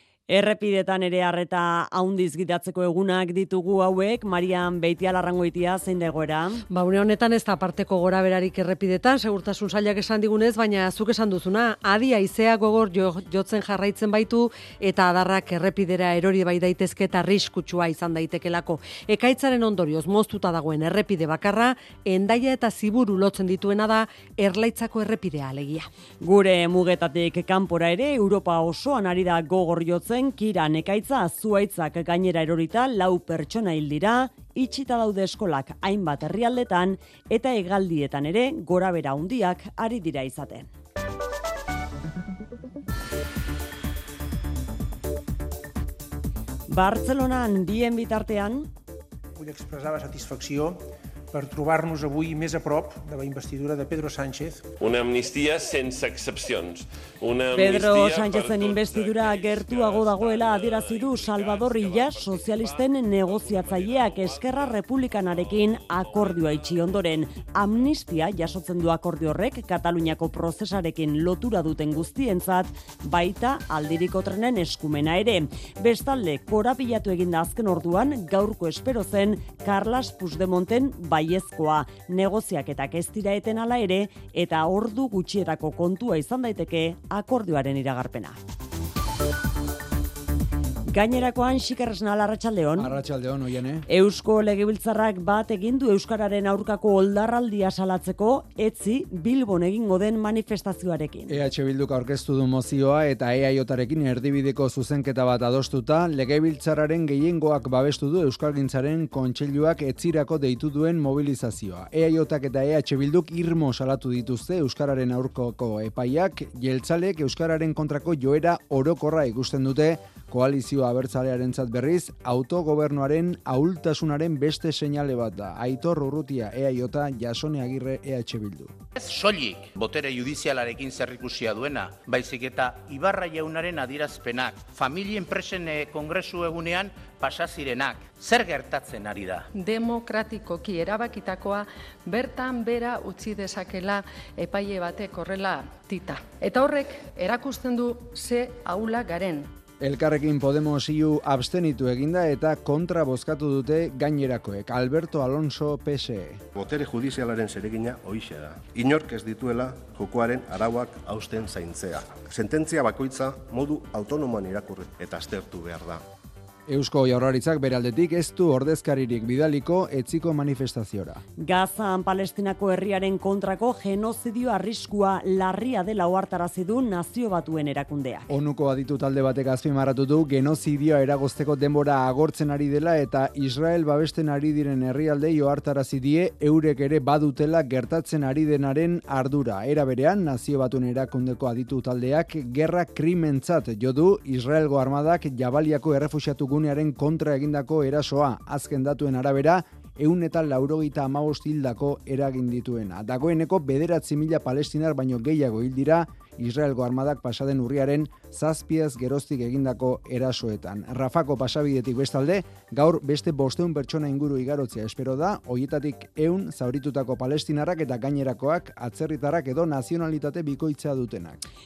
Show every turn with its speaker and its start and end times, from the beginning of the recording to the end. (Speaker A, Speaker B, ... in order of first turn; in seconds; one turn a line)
Speaker A: 0.3-6.6
Speaker B: 6.7-25.9
Speaker A: 26.2-40.7
Speaker A: 46.7-48.7
Speaker C: 49.4-54.7
Speaker D: 54.8-67.1
Speaker A: 57.5-88.4
Speaker A: 90.9-93.0
Speaker E: 92.8-93.9
Speaker A: 93.9-101.4
Speaker E: 101.3-128.7
Speaker F: 128.9-139.5
Speaker G: 139.5-149.5
Speaker E: 149.8-156.4
Speaker H: 156.6-166.0
Speaker E: 166.7-171.2
Speaker A: 171.4-178.3
Speaker E: 178.3-221.4